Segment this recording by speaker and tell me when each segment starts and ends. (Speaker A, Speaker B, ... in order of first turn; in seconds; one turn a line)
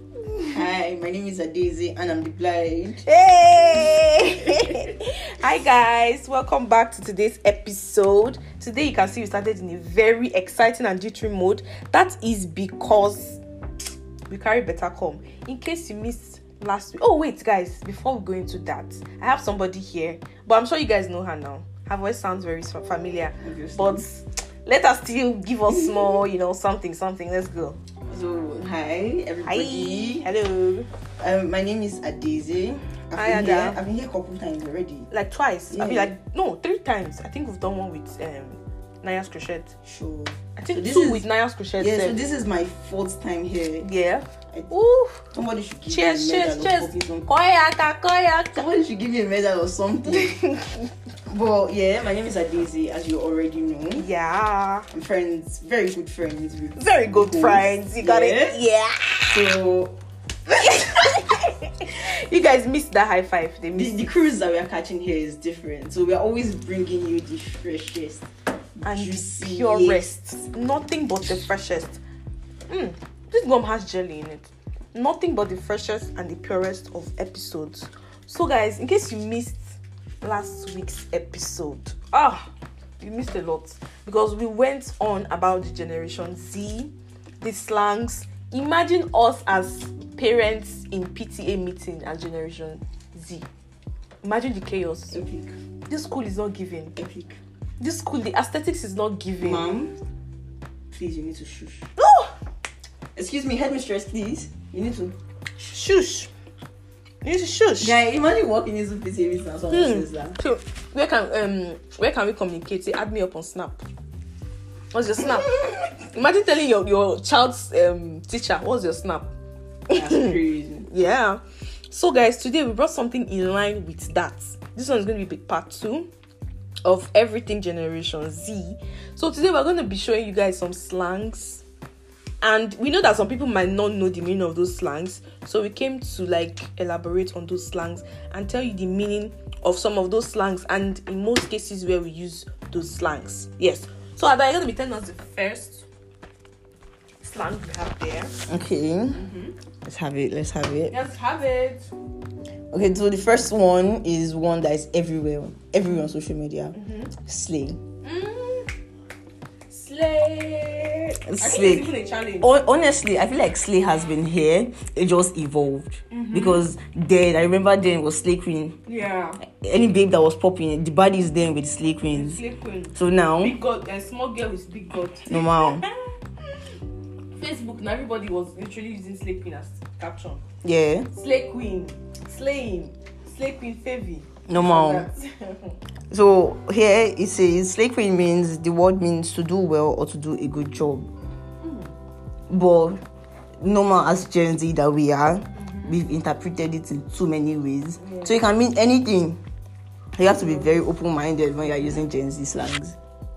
Speaker A: 0.3-3.0
Speaker B: 3.0-13.4
Speaker B: 14.3-27.8
Speaker A: 23.4-24.0
Speaker A: 25.7-26.2
Speaker A: 28.1-30.3
Speaker B: 29.4-30.9
Speaker A: 31.2-35.1
Speaker B: 33.1-33.8
Speaker B: 35.1-39.7
Speaker A: 35.7-36.1
Speaker A: 39.8-41.2
Speaker B: 40.5-42.2
Speaker A: 41.8-43.9
Speaker B: 43.8-45.3
Speaker A: 45.3-47.3
Speaker B: 45.9-48.6
Speaker A: 48.5-50.5
Speaker B: 50.1-50.9
Speaker A: 51.3-54.0
Speaker B: 54.0-54.9
Speaker A: 54.9-58.6
Speaker B: 56.8-59.5
Speaker A: 59.3-59.9
Speaker B: 60.5-64.1
Speaker A: 63.7-70.1
Speaker B: 68.8-72.0
Speaker B: 72.7-93.5
Speaker B: 94.2-95.2
Speaker A: 95.1-95.5
Speaker B: 95.9-97.0
Speaker A: 97.0-97.4
Speaker B: 97.8-99.7
Speaker A: 99.4-99.9
Speaker A: 100.9-101.9
Speaker B: 102.0-102.3
Speaker A: 103.1-105.2
Speaker B: 105.6-106.3
Speaker B: 107.2-108.0
Speaker A: 107.8-110.4
Speaker B: 109.7-113.8
Speaker B: 114.9-119.3
Speaker B: 119.9-126.1
Speaker A: 119.9-120.9
Speaker B: 126.8-131.6
Speaker B: 132.4-145.9
Speaker B: 147.2-148.4
Speaker A: 148.5-149.2
Speaker B: 149.1-149.5
Speaker A: 149.8-151.0
Speaker B: 150.9-151.9
Speaker A: 152.7-157.8
Speaker B: 156.7-157.1
Speaker B: 158.0-158.7
Speaker B: 159.7-162.5
Speaker A: 161.2-168.8
Speaker B: 166.1-166.6
Speaker B: 168.9-169.4
Speaker A: 169.4-172.4
Speaker B: 172.1-176.0
Speaker A: 172.9-173.6
Speaker A: 175.3-175.8
Speaker B: 176.5-176.7
Speaker B: 177.4-180.4
Speaker A: 180.6-181.1
Speaker B: 181.1-185.7
Speaker A: 184.5-185.1
Speaker A: 186.1-191.1
Speaker B: 191.6-191.9
Speaker A: 192.5-193.0
Speaker A: 193.6-199.4
Speaker B: 195.6-196.0
Speaker B: 198.0-198.4
Speaker A: 200.2-203.0
Speaker B: 200.2-200.8